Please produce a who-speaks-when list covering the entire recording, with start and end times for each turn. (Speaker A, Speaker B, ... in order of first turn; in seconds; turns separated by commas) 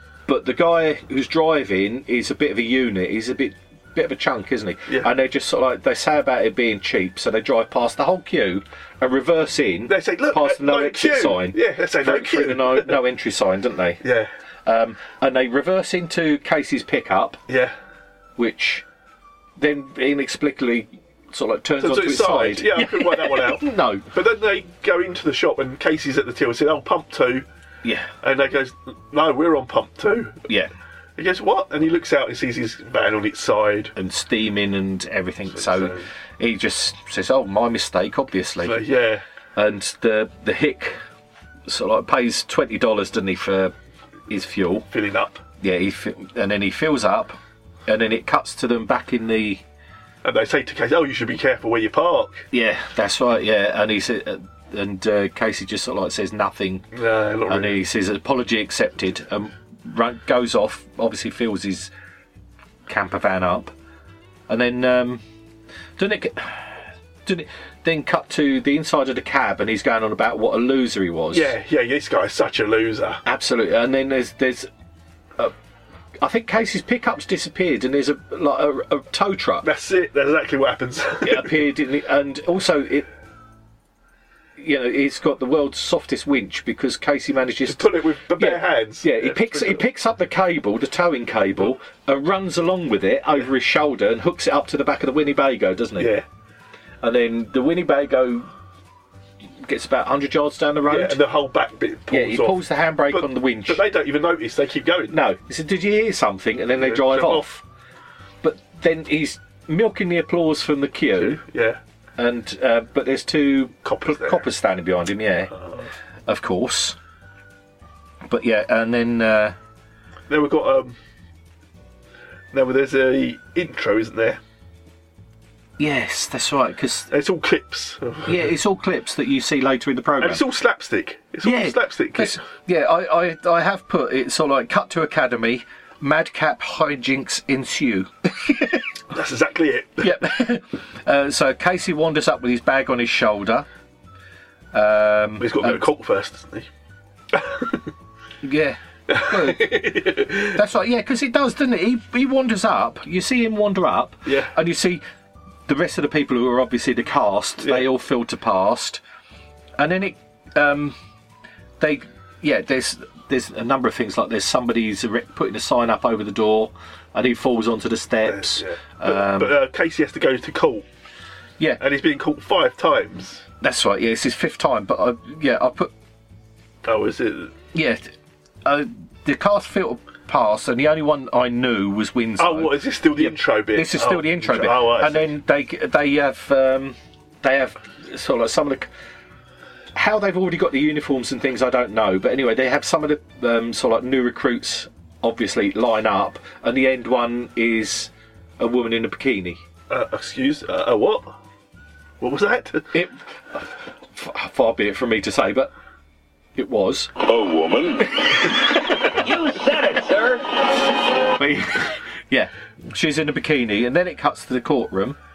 Speaker A: 0.2-14.0, Speaker B: 9.9-13.0, Speaker B: 14.0-14.3, Speaker A: 14.7-17.4, Speaker B: 17.5-17.7, Speaker A: 18.4-18.8, Speaker A: 19.6-24.1, Speaker B: 21.8-27.4, Speaker A: 27.8-28.1, Speaker B: 28.2-30.4, Speaker B: 31.2-33.9, Speaker A: 34.0-38.8, Speaker B: 35.5-36.1, Speaker B: 38.6-39.2, Speaker A: 39.5-41.0, Speaker A: 41.7-43.7, Speaker A: 44.3-44.9, Speaker B: 44.9-45.4, Speaker A: 45.6-49.6, Speaker B: 50.2-52.5, Speaker A: 52.5-56.9, Speaker B: 56.9-57.8, Speaker A: 57.5-61.9, Speaker A: 62.9-63.7, Speaker A: 64.5-65.2, Speaker A: 66.0-66.7, Speaker A: 67.2-71.5, Speaker B: 71.3-73.2, Speaker A: 73.2-74.7, Speaker A: 76.2-79.7, Speaker B: 79.6-81.6, Speaker A: 81.2-83.1, Speaker A: 84.6-96.1, Speaker B: 87.7-89.8, Speaker B: 96.0-96.2, Speaker A: 97.0-98.5, Speaker A: 99.6-101.2, Speaker B: 100.9-105.1, Speaker A: 102.1-103.8, Speaker A: 105.1-107.6, Speaker B: 106.8-107.5, Speaker A: 108.4-111.4, Speaker B: 111.1-111.8, Speaker A: 112.2-115.5, Speaker B: 113.8-114.4, Speaker B: 115.5-115.8, Speaker A: 116.3-117.0, Speaker A: 118.3-119.5, Speaker B: 120.3-121.0, Speaker B: 122.5-124.4, Speaker A: 125.8-127.1, Speaker B: 127.1-128.5, Speaker A: 128.2-130.4, Speaker B: 130.2-132.4, Speaker A: 131.4-138.8, Speaker B: 139.1-140.1, Speaker A: 140.0-143.7, Speaker A: 144.7-145.8, Speaker B: 145.4-146.7, Speaker B: 147.3-147.8, Speaker A: 148.4-150.0, Speaker B: 149.1-150.6, Speaker A: 150.5-155.0, Speaker B: 154.2-154.5, Speaker A: 155.7-159.0, Speaker A: 159.8-160.9, Speaker A: 161.8-169.5, Speaker B: 168.2-170.8, Speaker B: 171.8-173.4, Speaker A: 173.6-175.9, Speaker B: 176.8-177.5, Speaker A: 177.7-178.1, Speaker A: 178.6-188.9, Speaker B: 182.4-185.3, Speaker A: 189.9-199.6, Speaker B: 199.9-201.3, Speaker B: 202.2-202.9, Speaker A: 202.9-205.7, Speaker A: 206.6-207.1, Speaker C: 207.3-208.1, Speaker C: 209.2-210.4, Speaker A: 211.4-215.2